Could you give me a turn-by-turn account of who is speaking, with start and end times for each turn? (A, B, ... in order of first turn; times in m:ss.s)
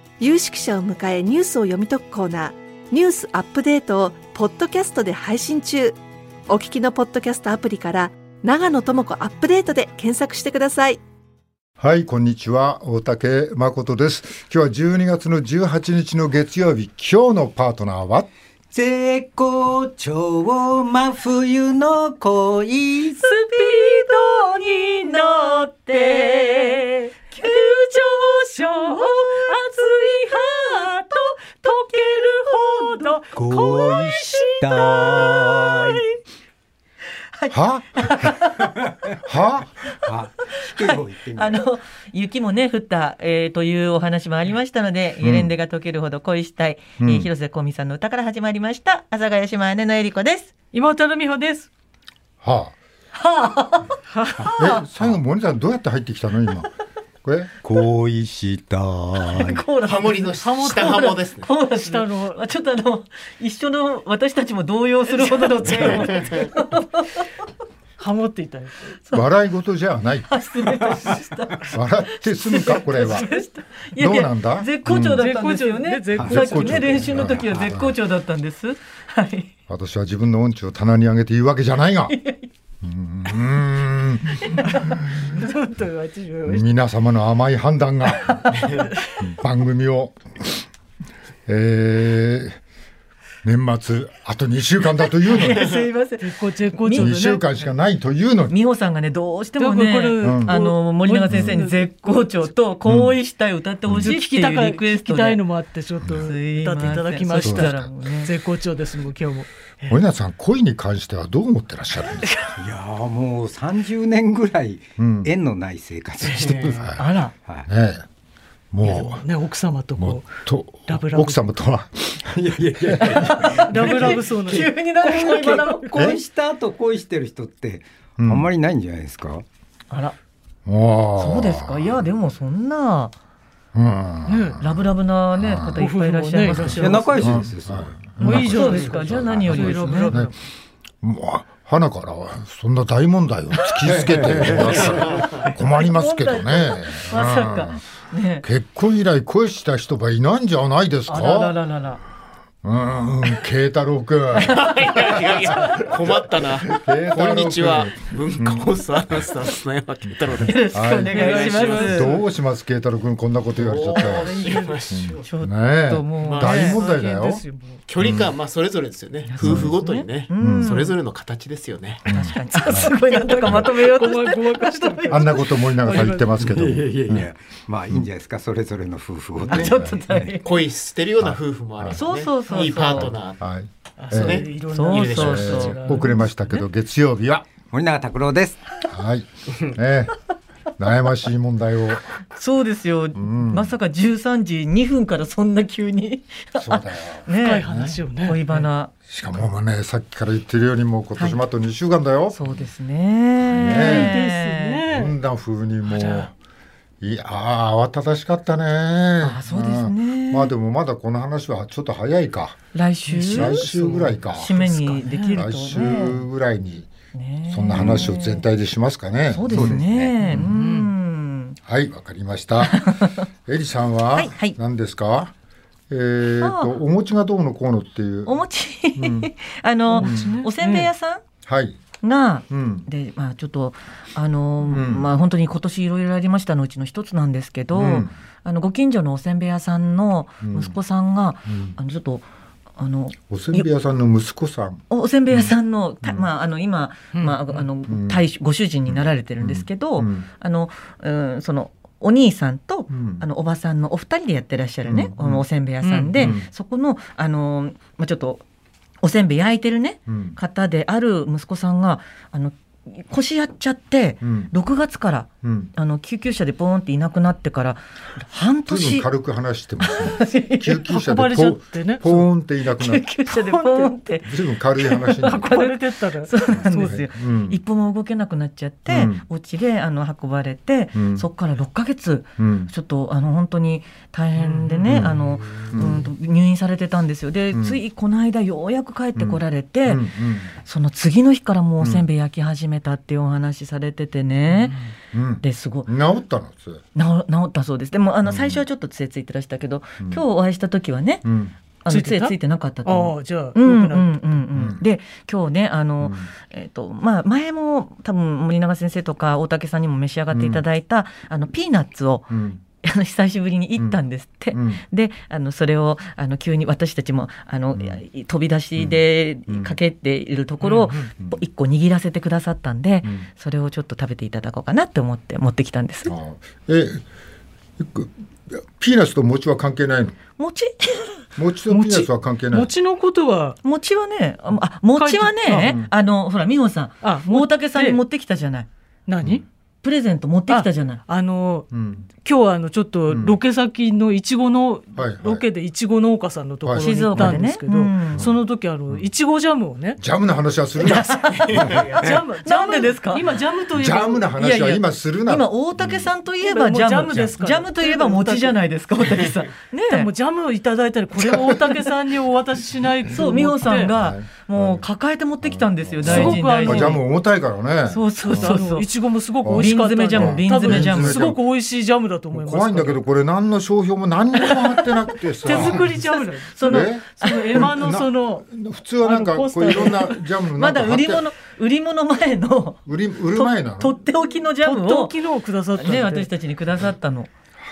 0:00.2-0:11.0 A
0:11.8-0:18.3 B
0:18.7-0:23.3 C
0:23.2-0:35.8 D
0:23.4-0:30.9 E
0:31.9-0:33.2 E
0:33.4-0:36.0 C
0:37.3-0:38.8 E
0:37.5-0:38.4 B
0:39.2-0:39.7 B
0:40.0-0:41.6 C
0:40.6-0:50.5 E
0:45.2-0:45.5 B
0:47.0-0:47.3 B
0:50.7-0:51.7 D
0:52.4-0:52.8 B
0:53.2-0:54.8 E
0:54.2-0:54.5 D
0:54.6-0:56.7 B
0:57.2-0:57.6 B
0:57.6-0:59.6 C
0:59.2-1:07.3 E
0:59.8-1:01.5 F
1:00.4-1:01.2 D
1:01.7-1:02.4 D
1:05.1-1:06.3 D
1:08.0-1:08.7 D
1:09.1-1:10.3 B
1:10.3-1:19.5 E
1:11.7-1:13.3 B
1:14.0-1:15.2 B
1:15.1-1:17.2 D
1:16.2-1:17.8 C
1:16.2-1:18.0 B
1:19.7-1:22.2 B
1:22.1-1:22.5 E
1:22.8-1:24.8 B
1:24.4-1:24.9 E
1:24.9-1:26.6 D
1:26.4-1:28.7 B
1:28.5-1:28.8 E
1:29.2-1:30.6 B
1:31.5-1:32.6 B
1:33.4-1:35.7 B
1:35.2-1:37.2 E
1:36.2-1:37.4 D
1:37.0-1:38.6 B
1:38.5-1:45.4 E
1:39.6-1:42.4 D
1:40.2-1:40.6 B
1:41.3-1:41.6 B
1:42.8-1:43.2 B
1:43.9-1:44.1 B
1:43.9-1:50.0 D
1:46.2-1:48.3 E
1:47.4-1:47.9 B
1:49.9-1:52.4 B
1:52.6-1:57.7 C
1:55.0-1:55.3 B
1:56.3-1:57.0 D
1:57.0-1:57.3 E
1:57.7-1:58.1 B
1:58.7-1:59.2 B
1:58.8-2:01.5 D
2:00.0-2:03.4 B
2:02.3-2:09.4 C
2:03.1-2:06.0 E
2:03.6-2:06.0 D
2:08.2-2:08.5 B
2:09.9-2:10.2 E
2:10.7-2:12.0 B
2:11.2-2:13.2 E
2:13.7-2:15.8 B
2:14.3-2:14.6 D
2:14.6-2:17.1 E
2:15.8-2:17.4 D
2:16.5-2:19.1 C
2:16.5-2:20.3 B
2:18.2-2:20.3 D
2:18.2-2:20.2 E
2:21.0-2:27.8 B
2:23.8-2:25.1 C
2:24.8-2:28.4 E
2:28.4-2:31.6 B
2:31.1-2:32.0 E
2:32.6-2:38.7 B
2:34.4-2:35.2 E
2:34.5-2:42.1 F
2:40.3-2:47.4 B
2:40.4-2:42.2 E
2:41.1-2:42.2 D
2:43.6-2:45.3 F
2:44.0-2:44.9 D
2:45.2-2:46.8 E
2:46.2-2:46.6 F
2:46.4-2:47.8 D
2:47.9-2:52.0 F
2:48.0-2:48.3 B
2:49.3-2:51.0 E
2:49.4-2:49.8 B
2:50.4-2:50.8 B
2:52.1-2:52.9 B
2:52.1-2:55.6 E
2:52.4-2:56.3 D
2:53.5-2:53.7 B
2:55.1-2:57.3 B
2:56.1-3:00.0 C
2:59.5-3:00.6 E
2:59.5-3:00.4 B
3:00.4-3:03.4 F
3:01.2-3:02.1 B
3:01.9-3:03.1 E
3:02.5-3:02.7 D
3:02.8-3:04.5 B
3:04.0-3:06.6 D
3:04.1-3:05.6 F
3:04.7-3:06.0 E
3:05.1-3:07.5 B
3:07.7-3:08.6 C
3:08.9-3:10.2 B
3:10.8-3:12.1 B
3:12.3-3:18.9 E
3:13.2-3:13.8 B
3:16.6-3:18.0 B
3:17.4-3:18.7 D
3:19.1-3:22.6 B
3:22.3-3:24.8 E
3:23.6-3:24.2 B
3:23.6-3:25.2 D
3:24.9-3:26.3 B
3:25.8-3:26.3 D
3:27.0-3:32.6 B
3:29.2-3:30.5 E
3:32.7-3:36.2 E
3:33.1-3:35.5 D
3:33.3-3:36.9 B
3:37.1-3:38.4 E
3:37.5-3:40.5 B
3:37.8-3:38.1 C
3:39.3-3:41.6 E
3:39.5-3:40.1 C
3:40.2-3:40.9 D
3:41.7-3:45.3 B
3:42.6-3:43.2 E
3:44.1-3:44.6 E
3:45.9-3:48.4 B
3:46.4-3:46.7 E
3:48.3-3:51.2 E
3:49.0-3:49.3 B
3:49.9-3:50.9 D
3:50.0-3:50.4 B
3:51.4-3:51.8 B
3:52.0-4:02.2 E
3:52.5-3:52.9 B
3:54.7-3:55.1 B
3:57.7-3:58.1 B
4:00.4-4:00.8 B
4:01.5-4:01.8 B
4:02.8-4:03.7 E
4:03.3-4:06.3 B
4:04.9-4:18.4 E
4:07.1-4:07.6 D
4:07.9-4:08.2 B
4:08.9-4:10.3 B
4:12.9-4:13.2 B
4:14.8-4:15.4 B
4:15.8-4:16.4 D
4:16.2-4:16.5 B
4:19.0-4:29.1 E
4:20.1-4:20.4 B
4:24.2-4:24.5 B
4:25.4-4:25.7 B
4:28.7-4:33.2 B
4:29.8-4:30.8 E
4:30.8-4:32.3 D
4:32.8-4:50.1 E
4:33.3-4:33.9 D
4:34.3-4:35.5 B
4:35.4-4:37.0 D
4:36.5-4:37.6 B
4:38.9-4:39.3 B
4:41.0-4:41.3 B
4:42.4-4:42.7 B
4:44.4-4:45.1 D
4:44.8-4:46.1 B
4:47.5-4:47.8 B
4:49.2-4:50.6 B
4:50.6-4:54.8 E
4:51.8-4:52.0 B
4:54.5-4:54.9 D
4:55.1-4:56.8 B
4:55.4-4:55.9 E
4:57.0-5:01.3 E
4:58.2-4:58.6 B
5:01.2-5:01.6 B
5:01.8-5:26.2 E
5:01.9-5:04.2 D
5:04.5-5:04.8 B
5:06.0-5:06.3 B
5:10.3-5:10.6 B
5:12.3-5:12.6 B
5:14.5-5:14.8 B
5:17.8-5:18.0 B
5:18.8-5:19.8 B
5:20.6-5:21.1 D
5:23.0-5:23.3 B
5:26.0-5:27.0 B
5:27.8-5:30.2 B
5:30.4-5:31.2 E
5:31.4-5:32.7 B
5:31.7-5:33.6 D
5:33.6-5:38.7 E
5:34.9-5:35.8 D
5:35.6-5:35.9 B
5:37.0-5:38.0 D
5:39.1-5:39.4 D
5:39.8-5:41.0 E
5:40.5-5:41.7 D
5:41.7-5:42.1 B
5:42.2-5:50.0 D
5:43.1-5:43.4 B
5:45.0-5:45.4 B
5:46.6-5:47.5 B
5:46.8-5:48.3 E
5:48.1-5:49.1 B
5:50.0-5:51.9 B
5:50.8-5:53.3 E
5:51.5-5:52.0 F
5:52.0-5:54.3 D
5:53.7-5:56.1 B
5:54.4-6:00.1 E
5:56.4-5:58.6 D
5:59.9-6:03.9 D
6:03.1-6:07.0 E
6:03.9-6:04.9 B
6:05.4-6:08.6 B
6:06.0-6:07.0 D
6:07.9-6:08.9 E
6:08.2-6:13.0 D
6:09.4-6:11.4 B
6:09.5-6:11.4 E
6:12.3-6:16.0 B
6:14.4-6:14.8 E
6:15.4-6:18.5 D
6:15.5-6:17.7 E
6:16.6-6:21.3 B
6:19.0-6:20.2 D
6:19.7-6:25.2 E
6:22.9-6:24.0 B
6:24.6-6:26.3 D
6:25.8-6:27.3 E